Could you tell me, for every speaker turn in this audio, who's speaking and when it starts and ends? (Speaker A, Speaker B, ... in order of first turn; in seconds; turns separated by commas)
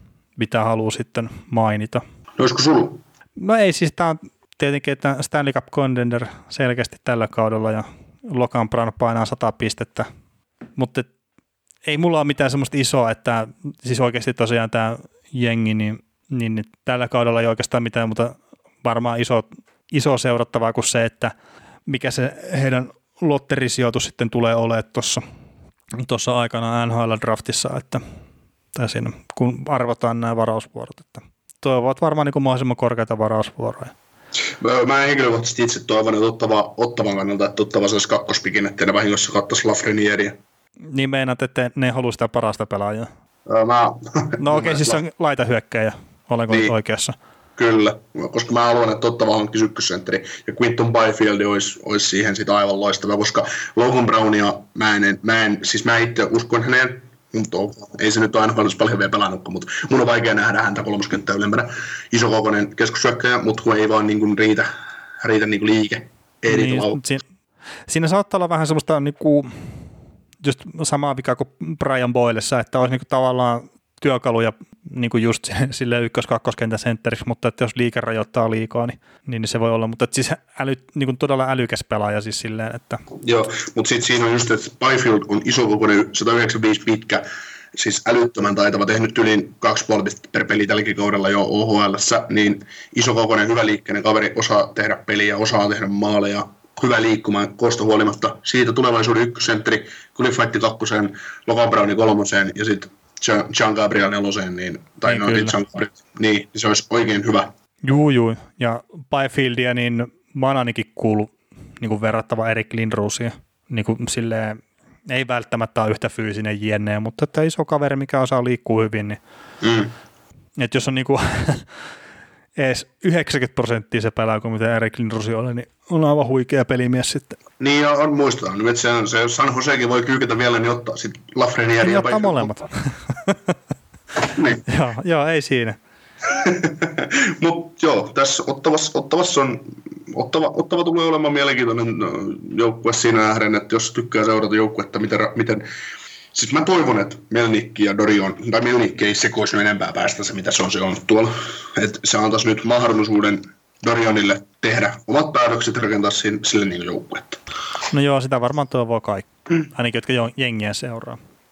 Speaker A: 0.4-2.0, Speaker B: 2.4-3.0, Speaker A: 3.4-10.1, Speaker A: 10.8-11.1, Speaker A: 11.9-21.3, Speaker A: 21.9-25.2, Speaker A: 25.9-28.0, Speaker A: 28.7-33.9, Speaker B: 34.6-40.4, Speaker A: 40.9-43.1, Speaker B: 43.5-45.0, Speaker A: 44.4-47.2, Speaker B: 46.5-46.7, Speaker B: 47.6-64.7, Speaker B: 65.2-67.0, Speaker A: 66.5-67.2, Speaker A: 67.9-69.8, Speaker A: 70.4-83.0, Speaker B: 83.2-107.5, Speaker A: 105.1-105.5, Speaker A: 107.8-119.2, Speaker B: 119.6-119.9, Speaker A: 120.6-121.7, Speaker A: 122.6-127.4, Speaker B: 127.6-132.6, Speaker A: 131.8-133.4, Speaker B: 134.3-134.6, Speaker A: 134.7-135.8, Speaker B: 136.3-145.7, Speaker B: 146.3-157.4, Speaker A: 157.9-161.2